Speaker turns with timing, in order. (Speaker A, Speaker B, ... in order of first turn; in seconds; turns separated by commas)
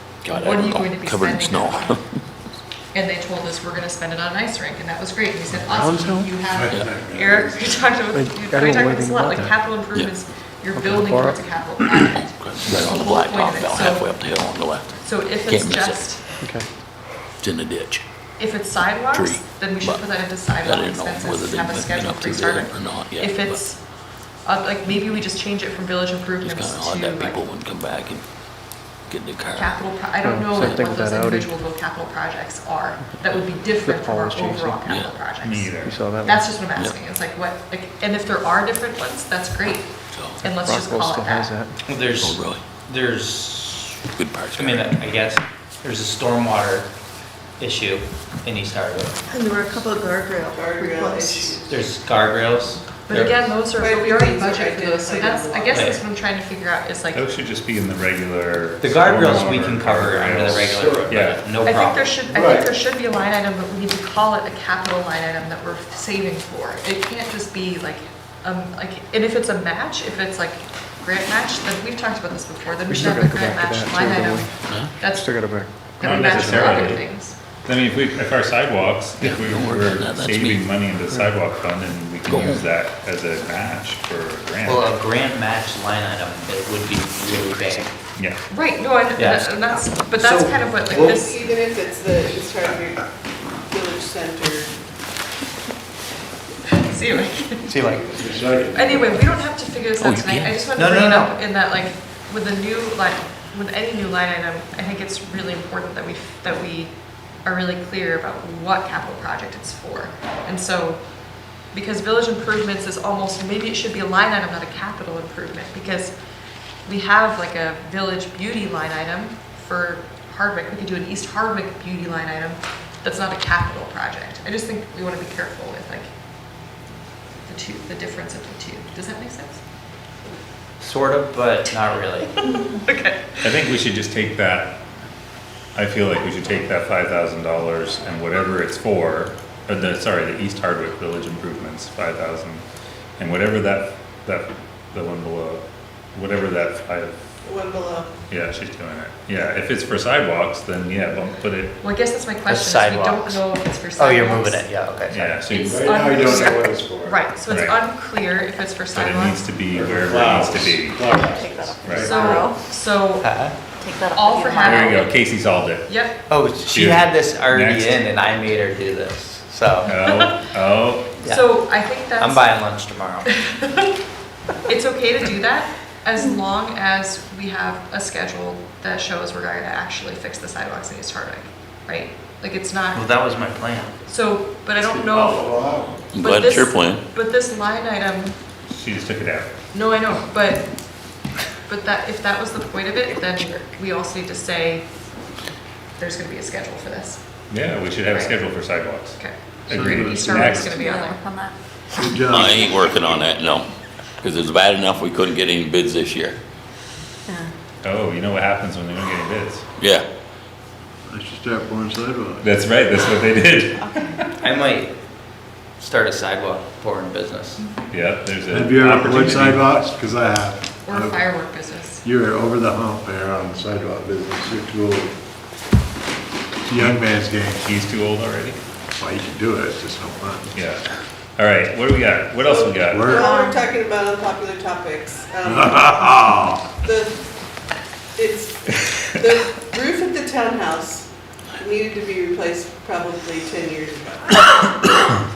Speaker A: 0.2-2.2, Speaker B: 0.3-2.0, Speaker B: 2.9-14.1, Speaker C: 5.5-6.3, Speaker D: 6.5-7.9, Speaker C: 8.1-9.7, Speaker C: 10.7-11.6, Speaker A: 11.8-16.1, Speaker B: 15.0-16.4, Speaker C: 16.4-16.7, Speaker A: 17.4-18.0, Speaker B: 18.4-27.4, Speaker A: 19.1-23.7, Speaker A: 26.4-28.2, Speaker A: 29.1-29.8, Speaker B: 29.5-41.5, Speaker C: 30.2-31.7, Speaker C: 33.0-34.8, Speaker A: 34.8-35.1, Speaker E: 35.4-36.0, Speaker C: 35.8-36.6, Speaker A: 40.1-40.4, Speaker C: 40.4-41.7, Speaker F: 41.9-44.0, Speaker A: 42.2-42.6, Speaker A: 44.1-44.9, Speaker F: 44.5-46.9, Speaker F: 47.6-49.2, Speaker B: 49.3-51.5, Speaker G: 50.5-51.9, Speaker F: 51.6-53.5, Speaker B: 53.1-57.2, Speaker G: 53.6-56.0, Speaker F: 55.7-56.0, Speaker E: 57.1-61.5, Speaker F: 58.8-62.2, Speaker D: 60.7-61.1, Speaker B: 61.5-75.2, Speaker D: 62.3-62.7, Speaker C: 72.8-77.0, Speaker A: 74.6-74.9, Speaker B: 76.0-77.4, Speaker E: 76.0-77.1, Speaker E: 77.6-84.9, Speaker A: 79.2-80.6, Speaker F: 84.6-88.0, Speaker E: 88.2-88.4, Speaker B: 88.5-91.3, Speaker F: 89.2-89.5, Speaker D: 90.1-91.2, Speaker G: 90.8-93.1, Speaker G: 93.7-94.7, Speaker B: 96.7-97.7, Speaker F: 97.7-98.2, Speaker D: 98.1-99.2, Speaker B: 98.7-111.0, Speaker A: 100.0-100.7, Speaker F: 100.7-101.3, Speaker B: 111.6-116.1, Speaker B: 116.8-126.1, Speaker B: 127.4-129.6, Speaker F: 130.8-132.3, Speaker B: 132.5-133.5, Speaker E: 133.4-134.8, Speaker E: 135.7-142.6, Speaker E: 143.2-145.6, Speaker E: 146.1-147.2, Speaker G: 147.4-148.1, Speaker E: 148.3-151.8, Speaker B: 151.8-154.6, Speaker F: 152.5-155.5, Speaker E: 155.1-155.8, Speaker B: 155.5-159.4, Speaker D: 155.6-157.2, Speaker E: 157.5-157.9, Speaker E: 158.9-161.1, Speaker D: 159.7-162.4, Speaker H: 161.1-162.6, Speaker E: 161.8-162.2, Speaker B: 161.9-163.3, Speaker F: 163.2-163.6, Speaker H: 163.8-165.1, Speaker B: 164.1-165.1, Speaker E: 164.7-166.0, Speaker B: 165.9-166.2, Speaker F: 166.3-169.9, Speaker E: 166.7-168.0, Speaker E: 169.8-171.2, Speaker B: 169.9-170.5, Speaker F: 171.2-173.3, Speaker B: 171.3-172.6, Speaker B: 173.5-173.8, Speaker B: 174.7-183.0, Speaker F: 182.9-183.9, Speaker B: 184.0-185.6, Speaker D: 184.8-186.1, Speaker A: 186.1-187.0, Speaker B: 186.2-188.4, Speaker E: 186.3-187.0, Speaker E: 188.7-189.5, Speaker B: 189.7-190.7, Speaker B: 191.7-194.8, Speaker B: 196.0-197.2, Speaker E: 197.5-200.8, Speaker B: 198.1-198.4, Speaker D: 199.7-200.7, Speaker B: 200.1-201.4, Speaker H: 200.7-201.5, Speaker D: 201.9-202.8, Speaker E: 202.3-202.7, Speaker A: 202.5-203.7, Speaker A: 204.2-206.4, Speaker E: 207.8-210.1, Speaker D: 211.1-212.5, Speaker E: 212.4-214.3, Speaker H: 213.8-214.1, Speaker F: 214.4-214.9, Speaker F: 215.8-217.6, Speaker E: 217.9-219.7, Speaker D: 218.5-221.3, Speaker B: 220.8-222.0, Speaker D: 222.0-225.1, Speaker D: 226.7-227.6, Speaker E: 227.6-228.6, Speaker D: 229.0-230.5, Speaker E: 230.5-230.8, Speaker E: 231.4-233.1, Speaker G: 232.4-236.2, Speaker D: 232.9-233.3, Speaker D: 235.5-236.6, Speaker G: 236.8-237.2, Speaker G: 238.2-238.6, Speaker E: 238.9-239.2, Speaker G: 239.2-244.4